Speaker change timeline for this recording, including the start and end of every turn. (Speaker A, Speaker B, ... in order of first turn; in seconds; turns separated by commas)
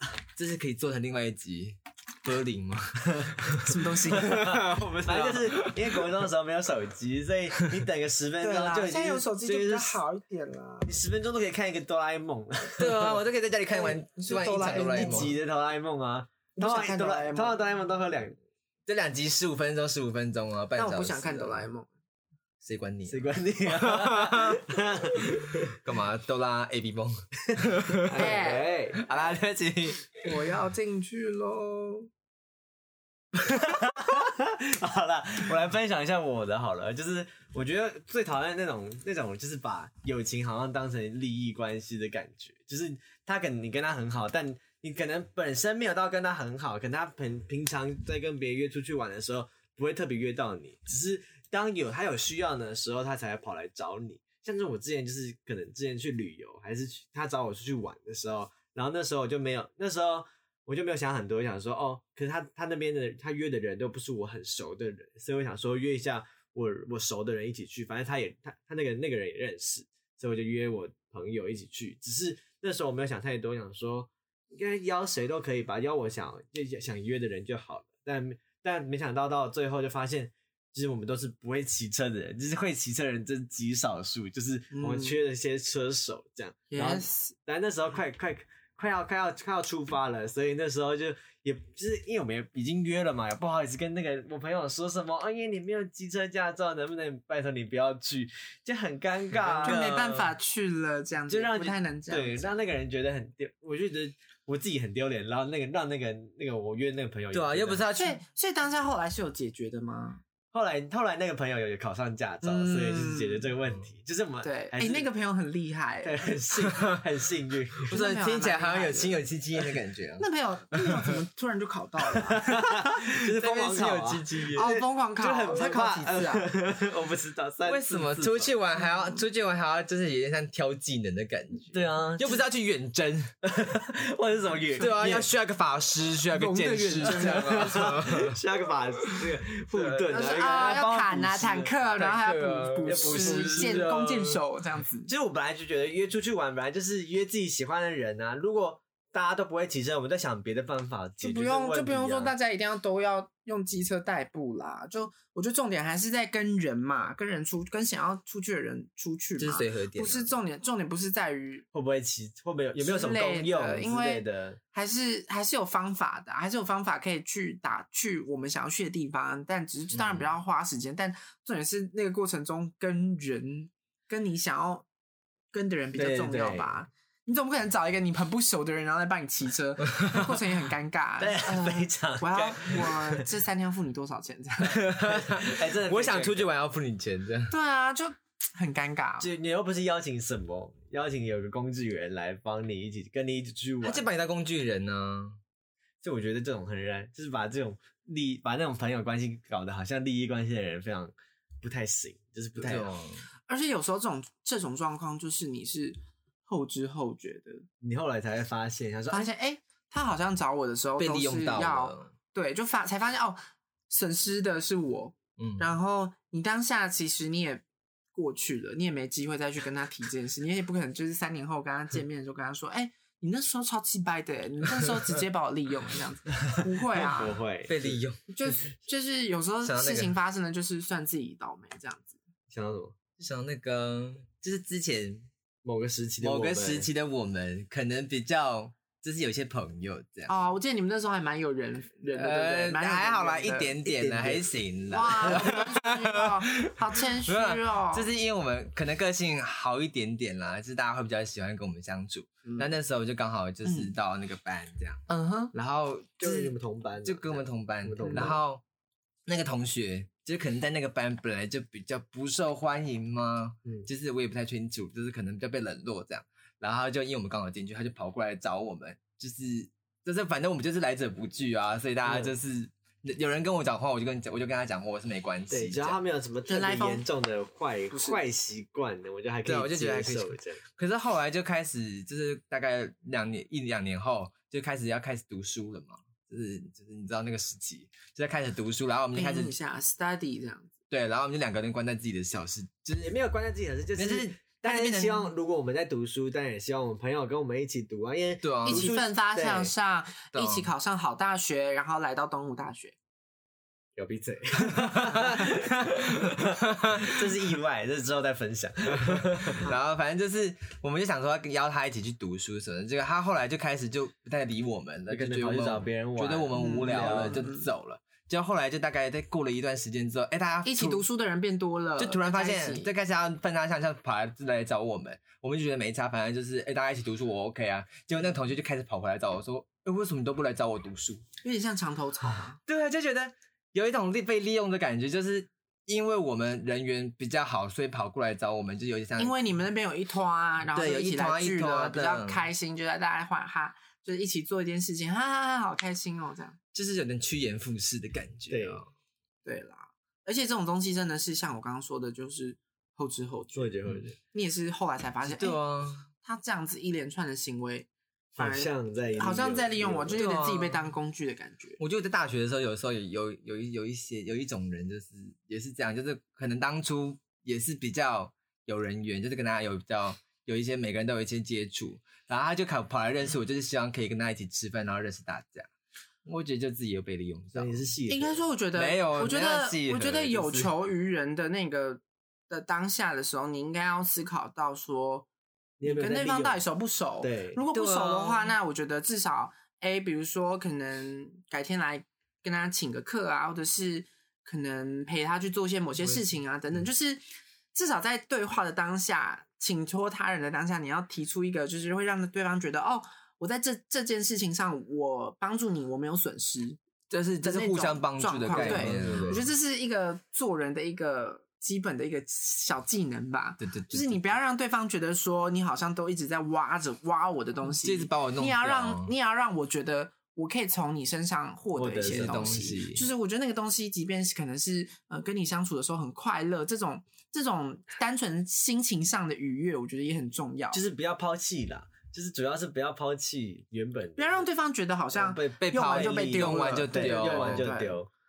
Speaker A: 0.3-3.6, Speaker B: 3.6-4.4, Speaker C: 4.1-10.0, Speaker A: 4.2-6.1, Speaker B: 8.4-10.9, Speaker C: 10.8-13.2, Speaker A: 12.8-15.3, Speaker B: 13.7-15.3, Speaker C: 14.7-18.4, Speaker B: 16.6-17.6, Speaker A: 18.9-21.7, Speaker B: 20.8-21.9, Speaker A: 22.6-24.6, Speaker C: 23.1-25.8, Speaker A: 25.8-28.4, Speaker C: 27.5-29.1, Speaker B: 28.1-28.7, Speaker A: 28.9-30.1, Speaker B: 30.2-32.1, Speaker C: 33.5-100.1, Speaker B: 84.7-85.2, Speaker B: 86.7-87.3, Speaker A: 99.4-100.3, Speaker B: 99.6-102.6, Speaker C: 101.3-107.8, Speaker A: 107.3-108.2, Speaker B: 107.9-110.2, Speaker C: 110.5-115.1, Speaker B: 112.4-113.5, Speaker B: 114.4-116.3, Speaker C: 116.0-117.9, Speaker A: 117.9-120.2, Speaker B: 117.9-119.2, Speaker B: 120.2-122.5, Speaker C: 122.4-128.5, Speaker A: 123.1-124.7, Speaker B: 124.5-126.5, Speaker A: 127.6-133.3, Speaker C: 131.7-132.4, Speaker C: 133.4-135.3, Speaker A: 134.8-138.4, Speaker B: 136.3-137.9, Speaker C: 137.1-141.8, Speaker A: 139.7-140.1, Speaker B: 140.1-145.1, Speaker A: 142.0-144.4, Speaker C: 142.8-143.9, Speaker C: 145.1-152.3, Speaker B: 151.2-161.6, Speaker A: 159.4-160.3, Speaker C: 161.7-164.6, Speaker B: 162.8-174.8, Speaker A: 169.9-170.3, Speaker B: 175.5-185.0, Speaker C: 175.9-176.8, Speaker C: 181.2-183.2, Speaker A: 184.7-187.5, Speaker C: 185.3-186.5, Speaker B: 187.5-189.3, Speaker C: 189.2-194.0, Speaker A: 193.8-195.4, Speaker C: 196.0-203.0, Speaker A: 202.6-203.2, Speaker B: 203.5-207.6, Speaker C: 207.8-209.3, Speaker B: 209.1-217.6, Speaker A: 211.0-212.1, Speaker A: 215.4-215.7, Speaker B: 218.1-227.4, Speaker C: 226.9-228.0, Speaker A: 227.7-228.2, Speaker B: 228.3-232.2, Speaker A: 229.6-230.1, Speaker C: 232.5-232.9, Speaker A: 233.2-235.3, Speaker C: 235.6-236.9, Speaker A: 236.2-240.3, Speaker B: 240.3-243.7, Speaker A: 242.1-246.7, Speaker C: 243.8-244.5, Speaker B: 244.9-248.1, Speaker A: 247.2-258.6, Speaker B: 252.4-252.7, Speaker B: 253.6-253.9, Speaker B: 255.1-255.5, Speaker C: 256.2-258.4, Speaker B: 258.0-258.3, Speaker A: 259.2-276.0, Speaker C: 272.1-272.3, Speaker C: 275.5-280.6, Speaker B: 276.5-277.0, Speaker B: 277.9-278.2, Speaker A: 279.4-289.5, Speaker B: 289.1-290.7, Speaker A: 290.9-293.1, Speaker C: 293.0-299.7, Speaker A: 293.9-295.3, Speaker A: 298.4-299.0, Speaker B: 298.6-302.9, Speaker A: 300.3-300.7, Speaker C: 304.0-309.7, Speaker A: 304.6-307.3, Speaker A: 309.5-321.0, Speaker C: 315.1-317.4, Speaker B: 316.6-317.7, Speaker B: 320.6-322.9, Speaker A: 322.0-331.2, Speaker B: 331.4-332.6, Speaker A: 332.6-339.4, Speaker B: 339.2-346.6, Speaker A: 340.7-342.4, Speaker A: 346.7-348.9, Speaker C: 348.5-348.8, Speaker B: 349.4-353.8, Speaker C: 353.5-354.2, Speaker B: 354.3-355.6, Speaker A: 355.2-356.1, Speaker B: 356.2-361.8, Speaker C: 358.4-360.2, Speaker A: 360.1-360.9, Speaker A: 361.8-375.7, Speaker A: 376.2-377.8, Speaker C: 377.5-378.4, Speaker B: 378.1-385.2, Speaker A: 378.8-380.7, Speaker C: 385.8-386.6, Speaker B: 385.8-397.2, Speaker C: 387.2-387.6, Speaker A: 387.7-388.5, Speaker B: 397.7-406.8, Speaker A: 407.1-409.4, Speaker B: 407.4-430.8, Speaker C: 408.5-409.4, Speaker A: 413.6-414.2, Speaker A: 417.6-419.1, Speaker C: 421.8-422.8, Speaker A: 422.1-423.1, Speaker C: 430.7-434.4, Speaker B: 434.2-438.0, Speaker C: 435.1-438.1, Speaker A: 435.6-437.7